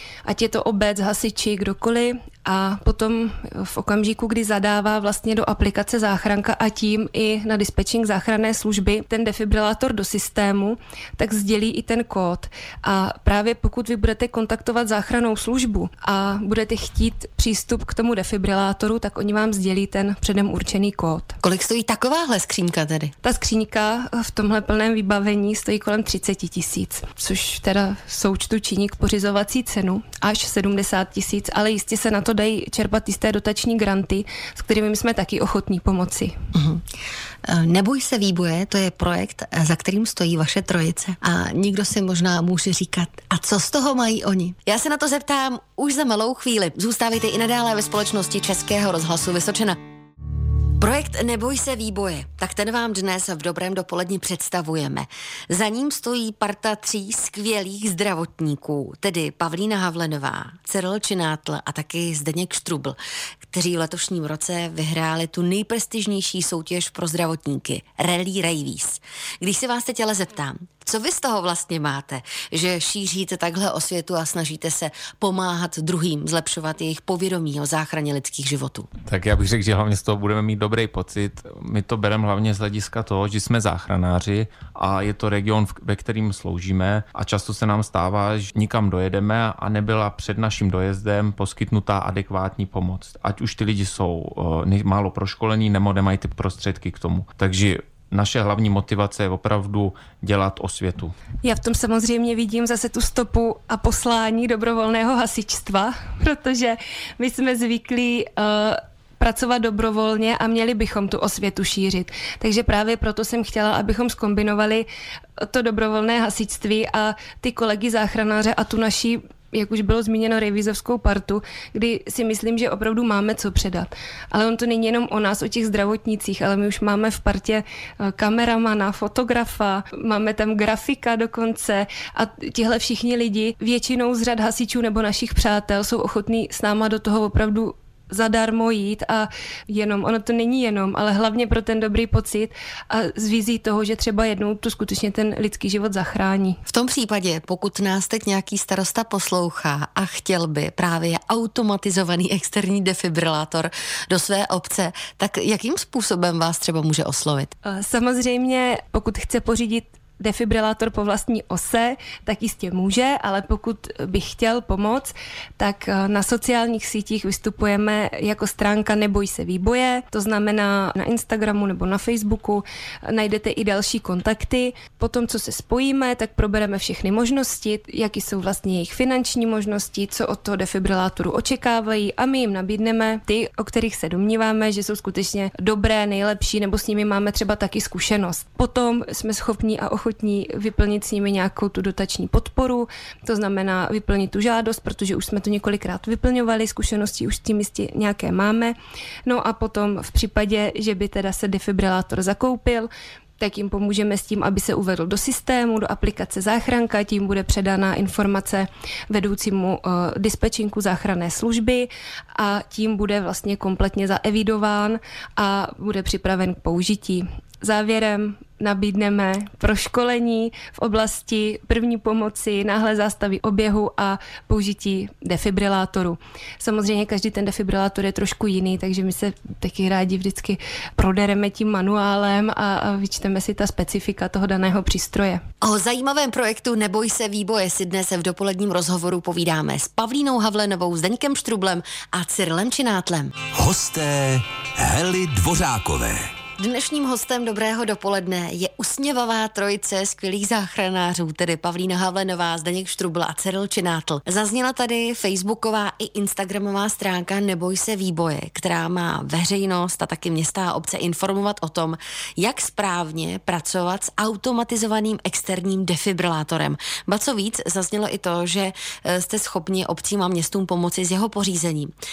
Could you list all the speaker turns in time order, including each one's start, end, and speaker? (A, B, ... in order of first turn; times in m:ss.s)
0:00.2-0:21.4 A
0:21.4-0:23.1 B
0:23.2-0:36.3 A
0:36.5-0:36.8 B
0:37.5-0:49.8 B
0:50.8-1:03.0 B
1:03.5-1:18.9 B
1:19.0-1:41.1 C
1:41.4-2:26.6 A
2:26.7-2:37.5 B
2:37.6-3:55.4 A
3:55.6-4:03.3 B
4:03.5-4:06.3 D
4:06.6-4:31.9 B